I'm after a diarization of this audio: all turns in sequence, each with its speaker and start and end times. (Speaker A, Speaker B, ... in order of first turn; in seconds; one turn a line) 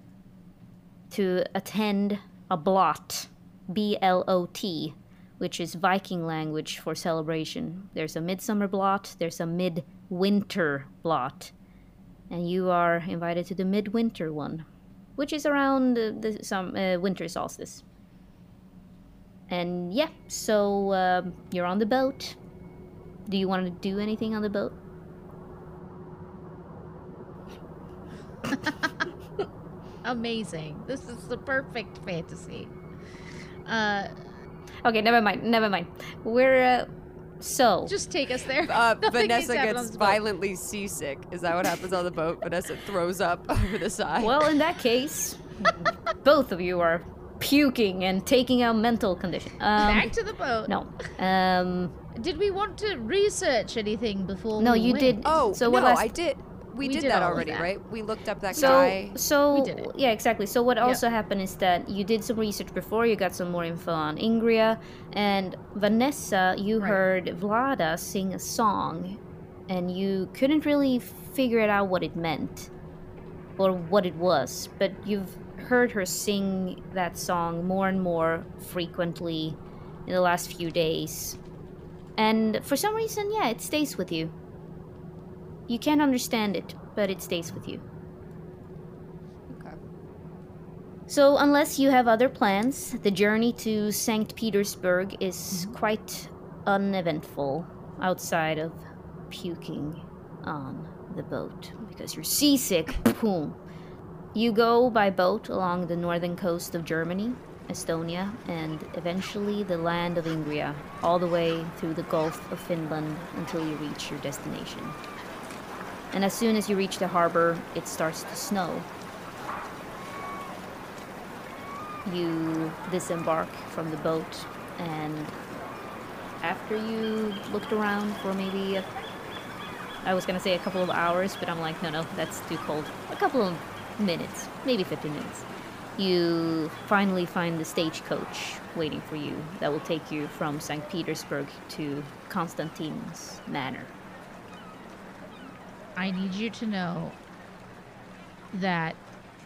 Speaker A: 1.1-11.5
Speaker A: 12.3-14.7
Speaker A: 15.2-17.8
Speaker A: 19.5-22.4
Speaker A: 23.3-24.8
Speaker B: 28.5-28.9
Speaker B: 30.0-32.7
Speaker B: 33.6-34.1
Speaker A: 34.8-37.9
Speaker B: 37.9-40.2
Speaker C: 38.7-44.5
Speaker A: 44.2-50.1
Speaker B: 49.8-50.7
Speaker A: 50.7-51.9
Speaker B: 52.1-55.2
Speaker A: 54.6-56.1
Speaker C: 55.2-59.2
Speaker B: 56.8-57.7
Speaker B: 58.5-58.9
Speaker A: 58.5-72.7
Speaker B: 59.5-59.9
Speaker A: 73.6-81.4
Speaker A: 82.2-84.3
Speaker A: 85.7-87.8
Speaker C: 89.5-89.8
Speaker A: 91.1-103.6
Speaker A: 104.3-115.0
Speaker A: 116.1-118.9
Speaker A: 122.0-125.4
Speaker A: 126.4-128.9
Speaker A: 130.0-143.9
Speaker B: 146.0-147.2
Speaker B: 148.5-149.0